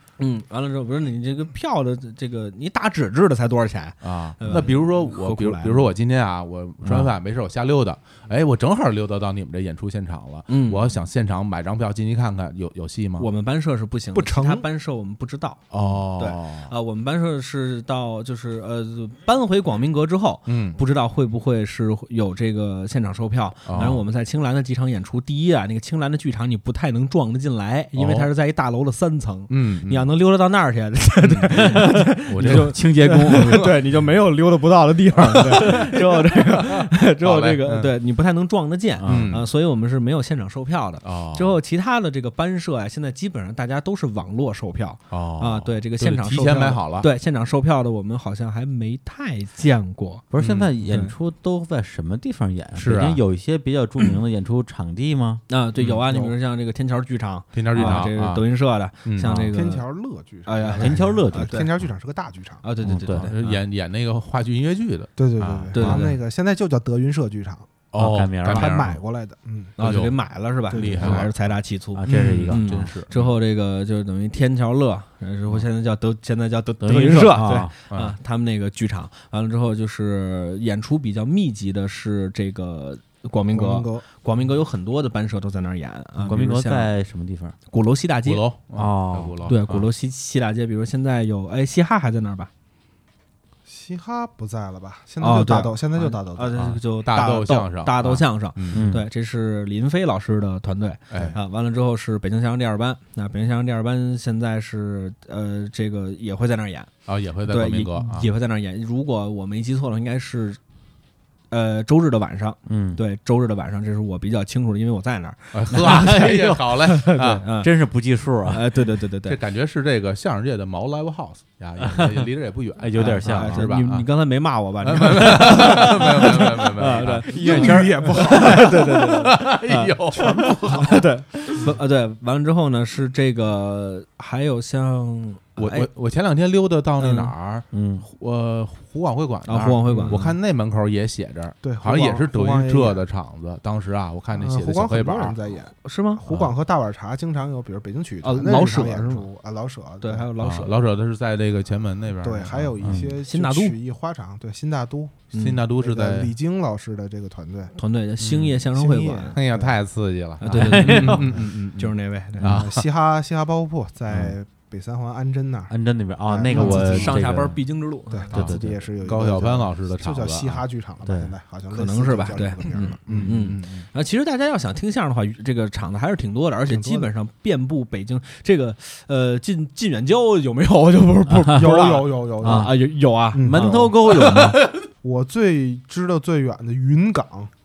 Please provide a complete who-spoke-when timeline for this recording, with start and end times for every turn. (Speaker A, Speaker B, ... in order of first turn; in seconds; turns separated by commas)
Speaker A: 0.2-5.9, Speaker B: 4.0-13.3, Speaker C: 6.8-7.1, Speaker A: 10.5-10.9, Speaker A: 13.2-50.3, Speaker D: 14.1-14.7, Speaker B: 15.7-16.7, Speaker B: 20.5-20.8, Speaker B: 23.7-24.0, Speaker B: 28.0-28.3, Speaker B: 29.5-30.1, Speaker B: 31.2-32.8, Speaker C: 31.5-33.7, Speaker B: 33.3-34.0, Speaker B: 35.4-37.9, Speaker C: 39.0-39.3, Speaker B: 39.0-39.5, Speaker B: 41.0-41.6, Speaker B: 45.1-47.1, Speaker C: 50.3-55.4, Speaker B: 50.4-50.7, Speaker A: 50.8-51.1, Speaker B: 52.8-53.2, Speaker A: 55.5-59.8, Speaker B: 55.8-56.0, Speaker B: 57.5-58.4, Speaker C: 57.7-58.1, Speaker B: 59.0-59.5, Speaker D: 59.5-62.6, Speaker A: 60.5-61.7, Speaker C: 60.8-61.7, Speaker A: 62.6-63.4, Speaker C: 62.8-63.6, Speaker B: 63.1-66.0, Speaker D: 65.2-67.7, Speaker A: 65.7-66.2, Speaker B: 67.9-69.0, Speaker C: 68.0-68.7, Speaker D: 68.5-69.8, Speaker A: 69.8-86.9, Speaker B: 69.8-70.2, Speaker D: 70.7-71.2, Speaker B: 70.7-71.5, Speaker C: 71.9-72.8, Speaker B: 72.1-73.3, Speaker C: 76.8-77.7, Speaker B: 77.9-78.2, Speaker D: 83.5-84.0, Speaker C: 86.2-87.5, Speaker A: 87.7-88.5, Speaker B: 88.2-89.9, Speaker C: 88.7-89.4, Speaker A: 89.5-92.5, Speaker D: 93.7-96.7, Speaker A: 95.2-110.6, Speaker B: 96.6-98.9, Speaker C: 98.7-99.1, Speaker B: 107.1-108.3, Speaker A: 111.5-117.7, Speaker C: 112.7-113.0, Speaker B: 115.5-117.5, Speaker C: 115.7-116.7, Speaker C: 117.6-118.6, Speaker A: 118.5-119.4, Speaker B: 119.3-124.1, Speaker C: 121.8-122.3, Speaker C: 122.8-123.7, Speaker A: 123.0-135.9, Speaker B: 124.8-127.4, Speaker C: 127.3-128.0, Speaker D: 127.3-128.9, Speaker B: 128.4-130.5, Speaker D: 130.1-131.0, Speaker B: 135.6-145.4, Speaker A: 137.0-137.3, Speaker C: 137.7-138.1, Speaker A: 139.5-140.4, Speaker D: 141.6-143.0, Speaker D: 144.3-150.3, Speaker A: 145.8-146.2, Speaker A: 148.2-149.3, Speaker A: 150.0-150.8, Speaker B: 150.4-153.0, Speaker D: 152.2-157.8, Speaker C: 152.8-153.1, Speaker A: 153.2-153.8, Speaker A: 155.3-155.6, Speaker B: 155.3-156.3, Speaker A: 157.8-159.4, Speaker B: 158.2-158.5, Speaker D: 158.7-159.8, Speaker B: 159.3-162.8, Speaker A: 160.4-162.6, Speaker C: 160.5-161.3, Speaker D: 161.2-161.4, Speaker D: 162.4-165.7, Speaker C: 165.7-167.6, Speaker D: 166.3-167.3, Speaker A: 166.5-168.6, Speaker D: 168.1-173.3, Speaker C: 168.3-168.8, Speaker B: 168.4-170.6, Speaker C: 171.1-171.3, Speaker A: 171.7-184.4, Speaker B: 173.1-173.9, Speaker D: 176.7-177.1, Speaker C: 181.3-181.7, Speaker D: 181.5-182.8, Speaker C: 182.4-182.8, Speaker D: 183.3-183.9, Speaker C: 183.4-184.6, Speaker B: 184.1-184.8, Speaker D: 185.0-187.5